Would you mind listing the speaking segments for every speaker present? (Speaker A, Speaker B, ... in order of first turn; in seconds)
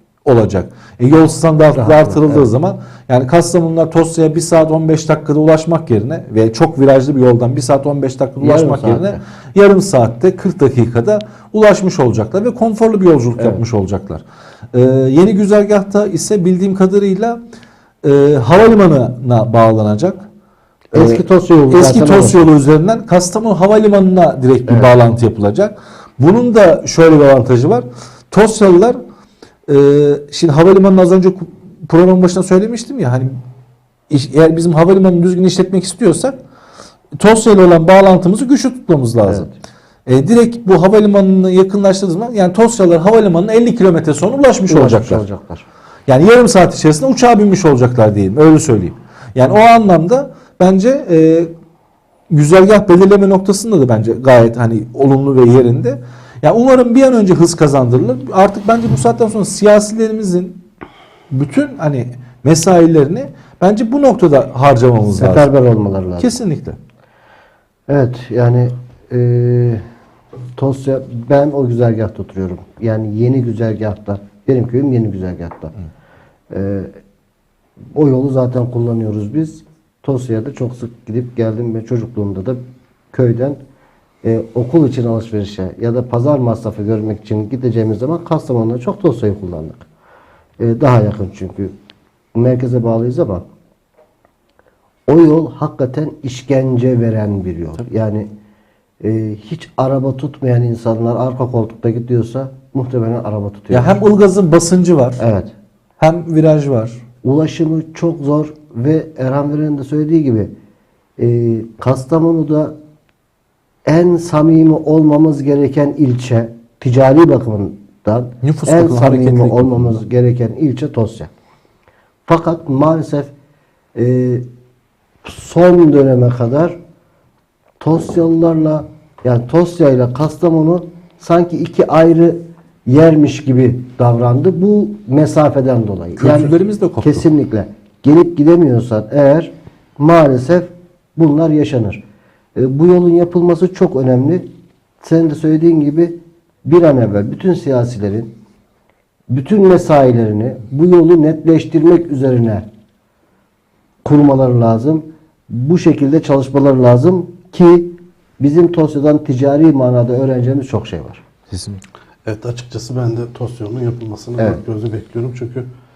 Speaker A: 0.3-17.4, 18.0-20.3, 20.9-29.0, 29.7-33.3, 34.1-36.4, 37.2-39.5, 40.1-45.2, 46.1-51.5, 52.3-60.6, 61.3-65.5, 66.2-66.8, 103.7-105.2, 106.0-107.0, 118.4-120.0, 136.2-137.2, 161.5-161.8
Speaker B: 1.7-2.5, 8.4-9.2, 20.9-22.5, 24.7-24.9, 39.2-39.5, 44.7-45.6, 65.2-66.3, 67.9-69.8, 70.6-75.7, 76.5-76.9, 77.9-82.6, 83.1-83.6, 84.2-89.8, 90.6-91.7, 92.3-93.5, 95.1-98.3, 99.0-104.0, 105.2-105.5, 107.2-110.5, 111.2-112.8, 113.9-121.3, 122.3-123.3, 124.0-124.4, 125.2-126.8, 127.8-142.0, 142.6-144.4, 145.0-148.3, 149.3-152.7, 154.0-161.2
Speaker C: 162.3-165.7